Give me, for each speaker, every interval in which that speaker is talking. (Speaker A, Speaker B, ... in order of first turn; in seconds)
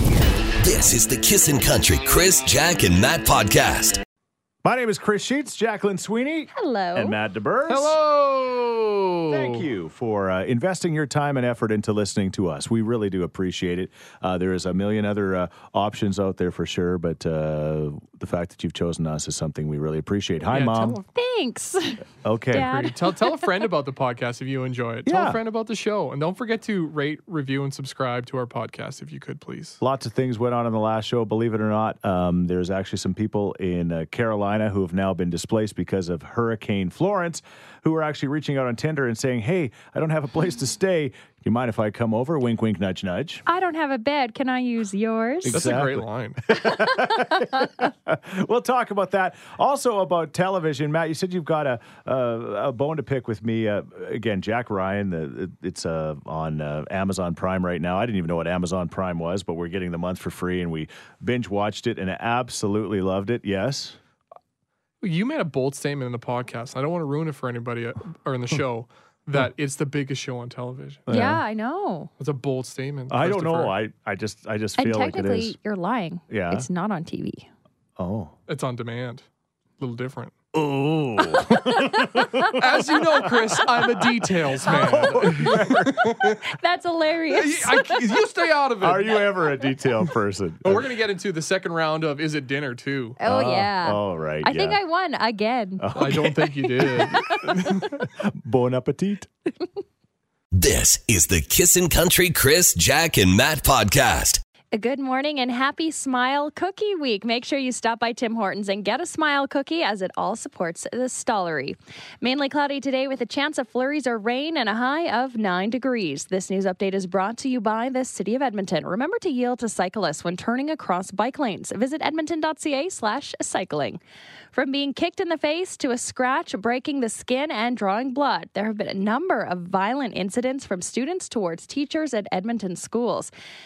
Speaker A: 0.6-4.0, 100.5-104.4
Speaker B: 4.6-8.0, 9.3-21.0, 22.2-22.8, 25.0-25.4, 29.8-43.4, 45.4-64.0, 71.1-71.4, 73.1-75.5, 76.3-76.7, 78.0-78.3, 80.5-86.1, 88.8-90.9, 93.2-94.8, 95.8-96.4, 97.9-99.3
Speaker C: 6.5-7.2, 21.1-23.5, 43.5-45.8, 47.2-47.7, 71.1-72.1, 74.8-77.5, 81.4-82.4, 84.6-85.5, 86.4-88.0, 93.2-95.9, 96.8-97.9, 104.7-124.0, 124.5-133.3
Speaker D: 7.7-9.7, 20.5-21.0, 22.5-29.8, 45.5-46.4, 65.0-71.0, 72.2-73.8, 78.5-79.2, 79.8-80.3, 82.5-86.4, 87.3-89.3, 90.6-93.2, 95.9-97.4